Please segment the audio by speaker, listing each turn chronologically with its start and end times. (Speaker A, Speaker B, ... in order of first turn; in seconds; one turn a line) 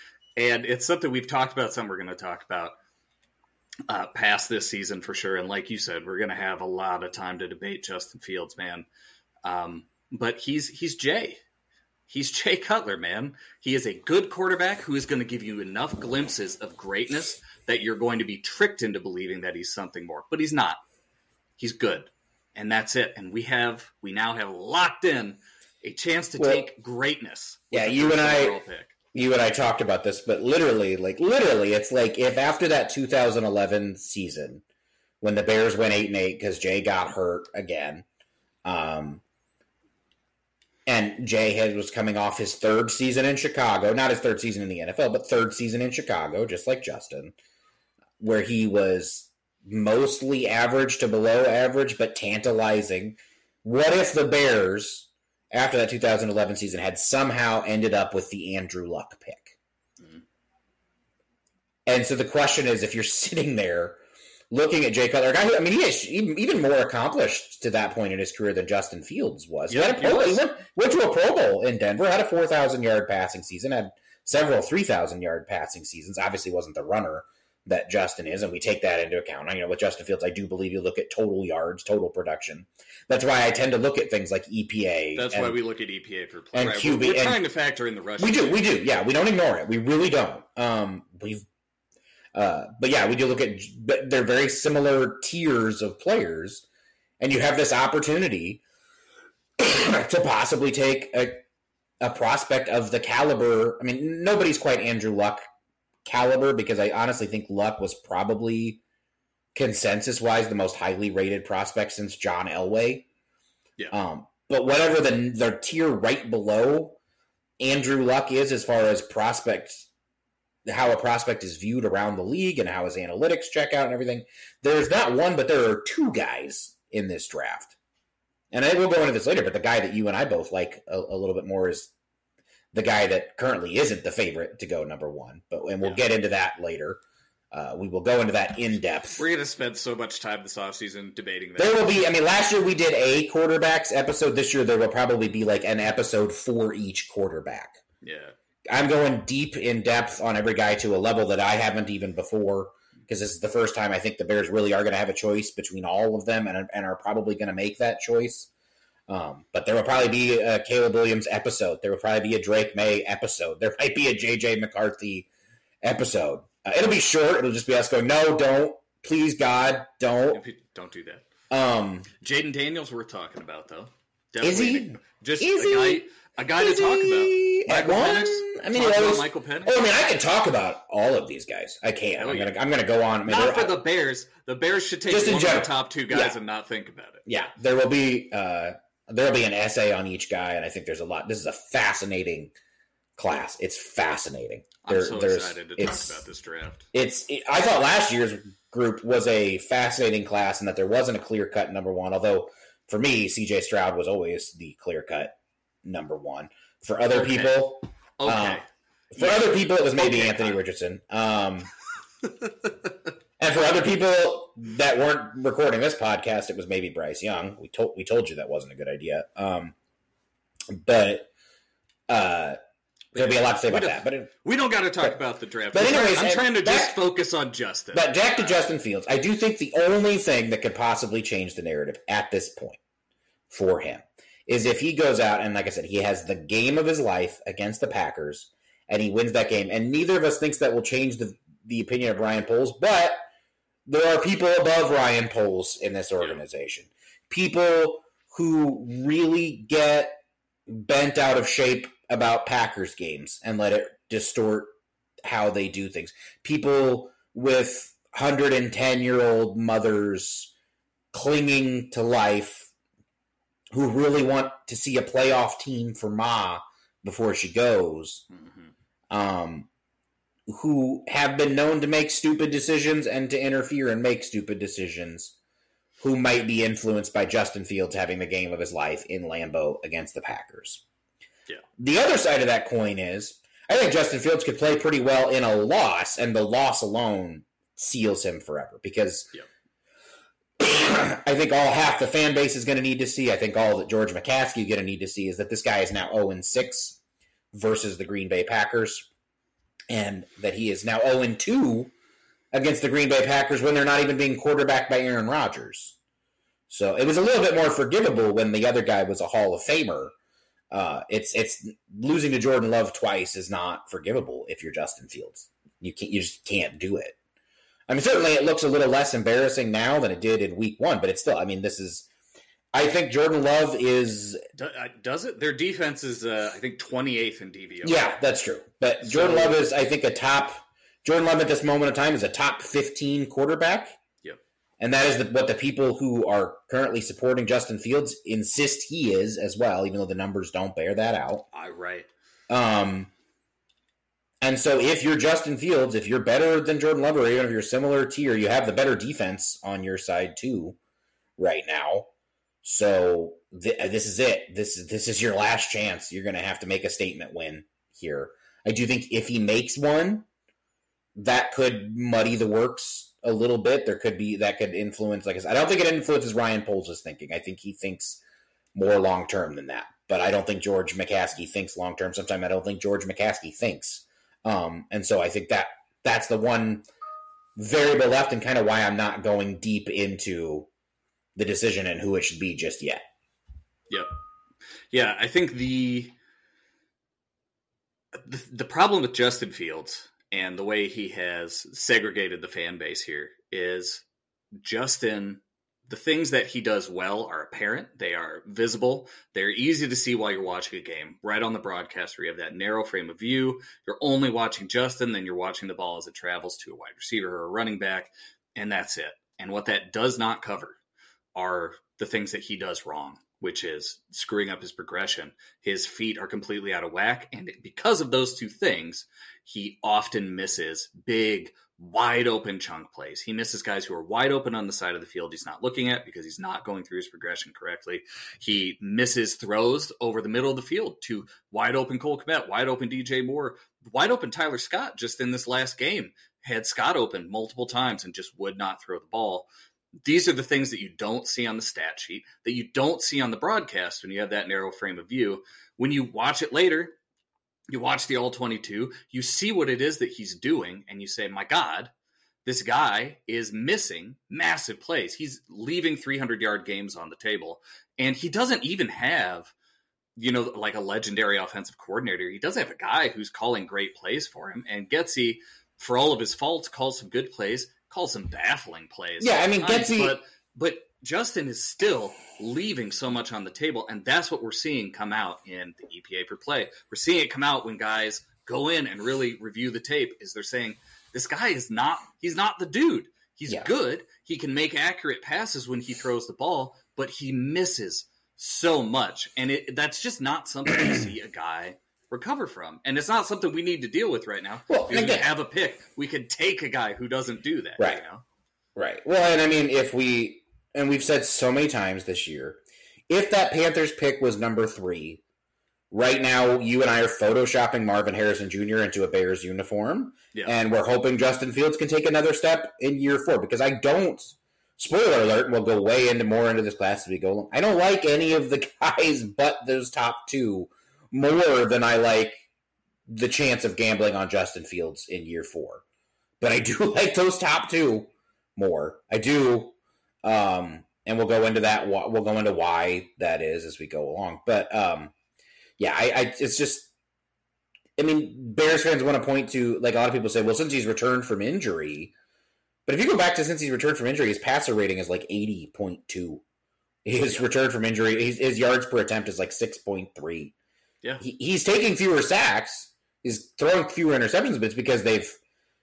Speaker A: 0.4-2.7
Speaker A: 3.9-8.8
Speaker A: 9.4-11.4
Speaker A: 12.1-20.8
Speaker A: 21.6-28.9
Speaker B: 26.4-26.7
Speaker B: 27.7-28.6
Speaker B: 29.1-34.6
Speaker B: 35.2-38.0
Speaker B: 38.6-39.2
Speaker B: 40.9-47.3
Speaker B: 48.2-59.5
Speaker B: 61.9-64.0
Speaker B: 64.5-85.6
Speaker A: 69.7-70.4
Speaker A: 85.1-88.6
Speaker B: 86.5-87.4
Speaker B: 88.2-91.5
Speaker B: 92.3-96.6
Speaker B: 97.2-98.6
Speaker B: 99.6-101.4
Speaker B: 102.0-105.4
Speaker B: 106.0-108.8
Speaker B: 109.5-113.0
Speaker B: 113.9-117.0
Speaker B: 117.6-119.9
Speaker B: 120.7-127.7
Speaker B: 128.5-131.9
Speaker B: 132.7-137.0
Speaker B: 137.5-139.2
Speaker A: 139.2-141.9
Speaker B: 141.6-147.8
Speaker A: 148.0-148.3
Speaker B: 148.7-158.5
Speaker B: 159.1-165.3
Speaker B: 165.8-170.4
Speaker A: 170.3-171.2
Speaker B: 171.5-172.1
Speaker A: 172.2-179.8
Speaker B: 174.4-176.0
Speaker B: 176.6-183.8
Speaker A: 182.2-182.5
Speaker A: 183.2-187.2
Speaker B: 185.1-186.3
Speaker B: 187.3-192.5
Speaker B: 193.2-196.2
Speaker A: 194.8-196.9
Speaker B: 196.9-208.6
Speaker A: 207.1-207.5
Speaker A: 208.2-208.7
Speaker B: 209.1-211.7
Speaker A: 209.2-210.6
Speaker B: 213.4-219.7
Speaker B: 220.7-221.3
Speaker B: 222.1-222.6
Speaker A: 223.1-228.5
Speaker B: 223.1-224.3
Speaker B: 225.7-226.9
Speaker B: 227.9-232.8
Speaker B: 233.5-243.2
Speaker B: 243.9-254.7
Speaker B: 255.2-260.5
Speaker B: 261.1-262.7
Speaker B: 263.7-268.2
Speaker A: 268.4-268.6
Speaker B: 269.1-269.7
Speaker B: 270.5-275.3
Speaker B: 276.0-280.8
Speaker B: 281.8-289.3
Speaker B: 290.6-297.0
Speaker B: 297.5-299.1
Speaker B: 299.9-301.9
Speaker B: 302.5-305.9
Speaker B: 306.7-310.1
Speaker B: 310.7-317.1
Speaker B: 317.9-322.1
Speaker B: 322.7-324.4
Speaker A: 324.5-328.1
Speaker B: 327.8-333.9
Speaker A: 329.0-329.6
Speaker B: 334.8-341.4
Speaker A: 341.5-342.1
Speaker B: 342.5-343.1
Speaker B: 344.4-350.8
Speaker B: 351.4-352.1
Speaker B: 352.6-360.2
Speaker B: 361.1-368.2
Speaker B: 368.7-376.9
Speaker B: 377.6-380.7
Speaker B: 381.4-383.0
Speaker A: 384.9-386.1
Speaker A: 388.1-394.0
Speaker A: 394.6-410.8
Speaker A: 411.3-439.5
Speaker A: 440.0-447.0
Speaker A: 447.7-451.9
Speaker A: 452.4-459.5
Speaker A: 460.2-498.2
Speaker B: 469.2-470.2
Speaker B: 494.7-495.3
Speaker B: 498.8-505.2
Speaker B: 505.9-522.4
Speaker B: 523.1-525.8
Speaker B: 526.4-535.1
Speaker B: 535.8-536.9
Speaker B: 538.0-542.1
Speaker B: 542.9-546.4
Speaker B: 547.0-550.5
Speaker B: 551.2-555.4